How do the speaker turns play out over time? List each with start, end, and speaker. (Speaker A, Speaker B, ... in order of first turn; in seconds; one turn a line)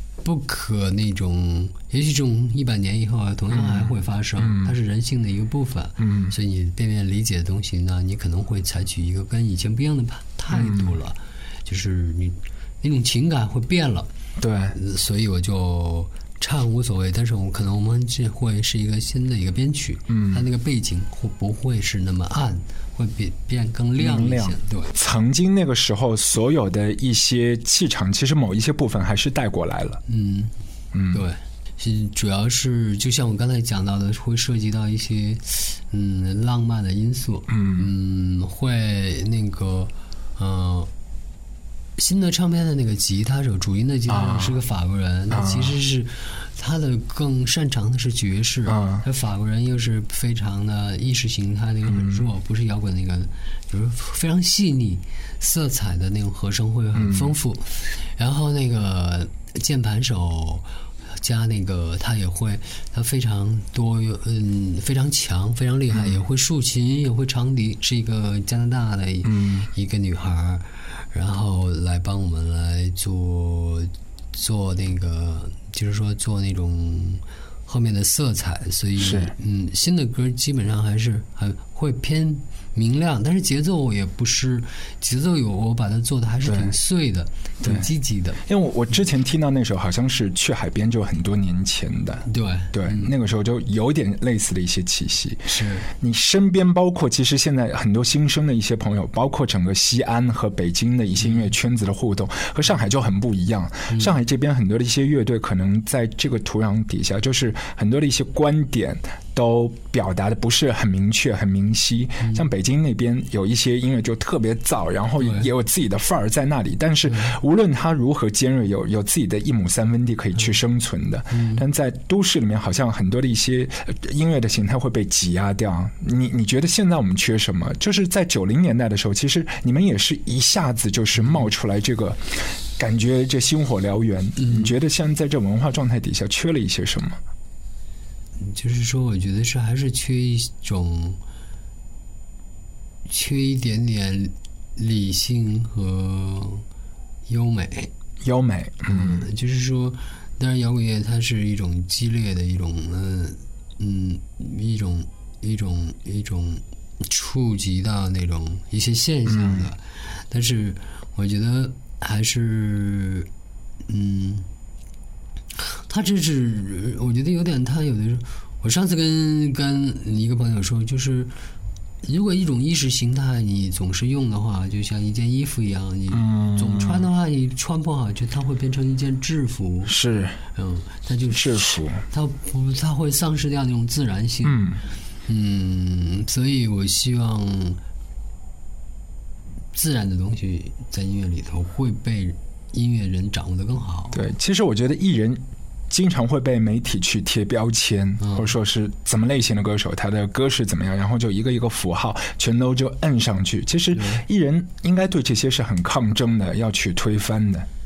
Speaker A: 0.2-14.1
Speaker B: 3.5-4.7
Speaker B: 6.0-6.3
Speaker B: 10.5-10.9
Speaker B: 14.4-14.8
Speaker A: 14.7-24.9
Speaker B: 20.1-20.4
Speaker B: 24.0-30.0
Speaker A: 30.1-30.5
Speaker B: 30.9-31.2
Speaker A: 31.1-40.9
Speaker B: 37.5-37.9
Speaker A: 42.0-88.4
Speaker B: 44.1-44.6
Speaker B: 45.3-45.8
Speaker B: 48.7-49.0
Speaker B: 51.9-52.2
Speaker B: 57.0-57.3
Speaker B: 65.9-66.2
Speaker B: 69.2-69.7
Speaker B: 79.0-79.3
Speaker B: 86.5-86.7
Speaker B: 88.5-137.2
Speaker A: 92.3-93.1
Speaker A: 95.5-95.9
Speaker A: 103.9-104.2
Speaker A: 115.2-115.5
Speaker A: 117.1-117.4
Speaker A: 121.3-121.6
Speaker A: 134.4-134.8
Speaker A: 138.4-141.2
Speaker A: 143.1-146.7
Speaker A: 147.3-147.9
Speaker B: 148.2-149.3
Speaker A: 148.8-163.3
Speaker B: 159.3-159.7
Speaker A: 163.9-164.5
Speaker A: 165.7-171.3
Speaker A: 172.0-179.9
Speaker B: 176.1-177.1
Speaker B: 179.9-180.4
Speaker A: 180.6-184.6
Speaker B: 181.3-182.0
Speaker B: 184.4-184.8
Speaker A: 185.3-187.8
Speaker A: 189.7-194.2
Speaker B: 194.1-207.7
Speaker A: 198.2-198.5
Speaker A: 203.9-204.2